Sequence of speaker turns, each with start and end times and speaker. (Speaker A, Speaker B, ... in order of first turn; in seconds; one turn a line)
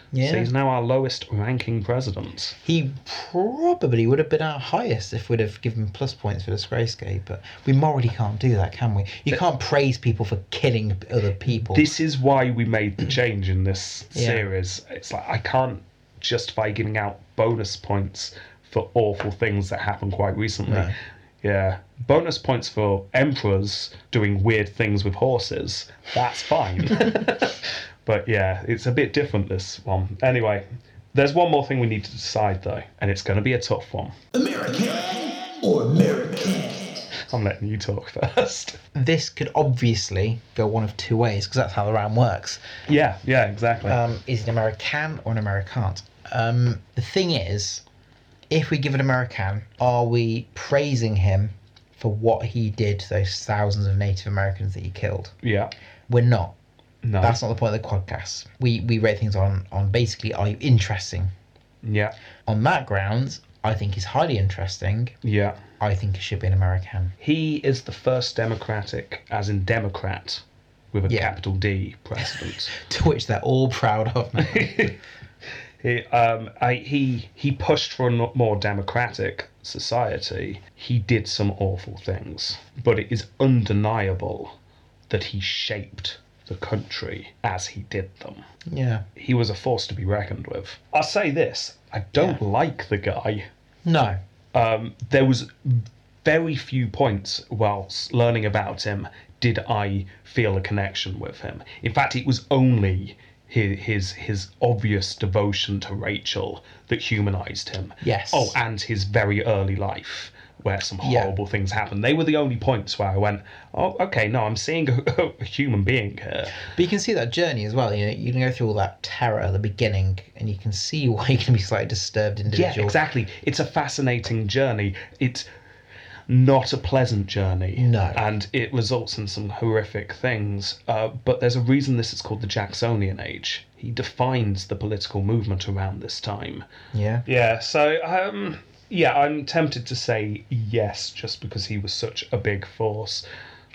Speaker A: 0.1-0.5
Speaker B: 0.2-2.6
Speaker A: 2.6-11.9
Speaker B: 11.7-34.1
Speaker A: 14.1-14.5
Speaker A: 20.7-20.9
Speaker C: 34.3-37.1
Speaker B: 37.2-38.8
Speaker A: 39.0-42.6
Speaker B: 42.9-44.0
Speaker A: 43.9-47.8
Speaker A: 48.5-55.4
Speaker B: 55.4-55.7
Speaker A: 56.1-56.5
Speaker B: 57.0-57.4
Speaker A: 57.2-61.3
Speaker B: 61.8-62.1
Speaker A: 62.5-65.2
Speaker B: 65.2-65.6
Speaker A: 65.8-67.2
Speaker B: 67.2-72.7
Speaker A: 71.1-71.3
Speaker A: 72.2-75.0
Speaker B: 74.4-75.0
Speaker B: 75.8-84.5
Speaker B: 85.1-88.5
Speaker A: 88.7-89.0
Speaker B: 89.2-93.5
Speaker A: 93.8-94.2
Speaker B: 94.5-116.7
Speaker A: 108.0-108.5
Speaker A: 111.0-111.3
Speaker A: 116.6-123.0
Speaker B: 122.5-125.5
Speaker B: 126.3-136.7
Speaker A: 127.8-128.2
Speaker A: 136.9-137.2
Speaker B: 137.2-143.2